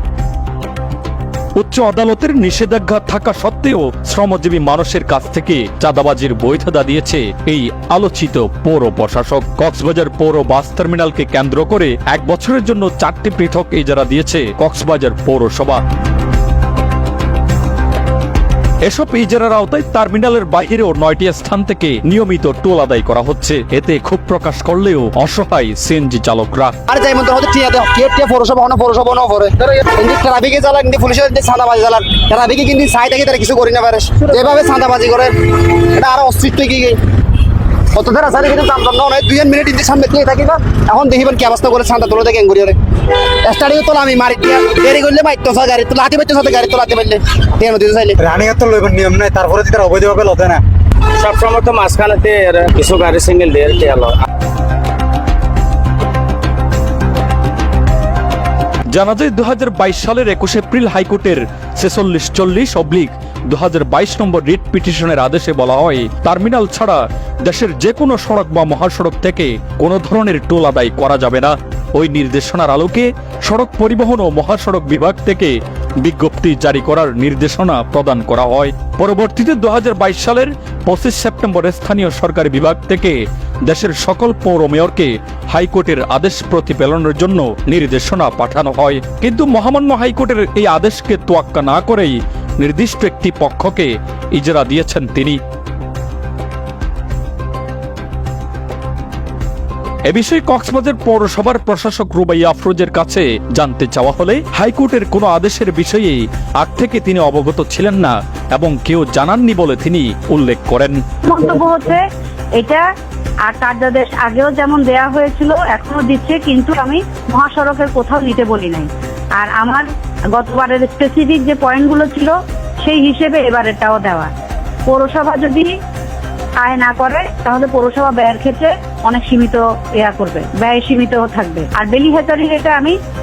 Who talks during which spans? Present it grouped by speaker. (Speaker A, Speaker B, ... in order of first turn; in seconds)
Speaker A: 1.6-15.8, 18.8-26.8, 58.9-95.4, 100.1-111.0
Speaker B: 26.9-37.0, 37.9-48.2
Speaker C: 48.3-50.6
Speaker D: 51.2-54.2
Speaker E: 111.2-112.0, 112.6-112.8, 113.5-124.3, 124.9-125.7, 126.6-133.0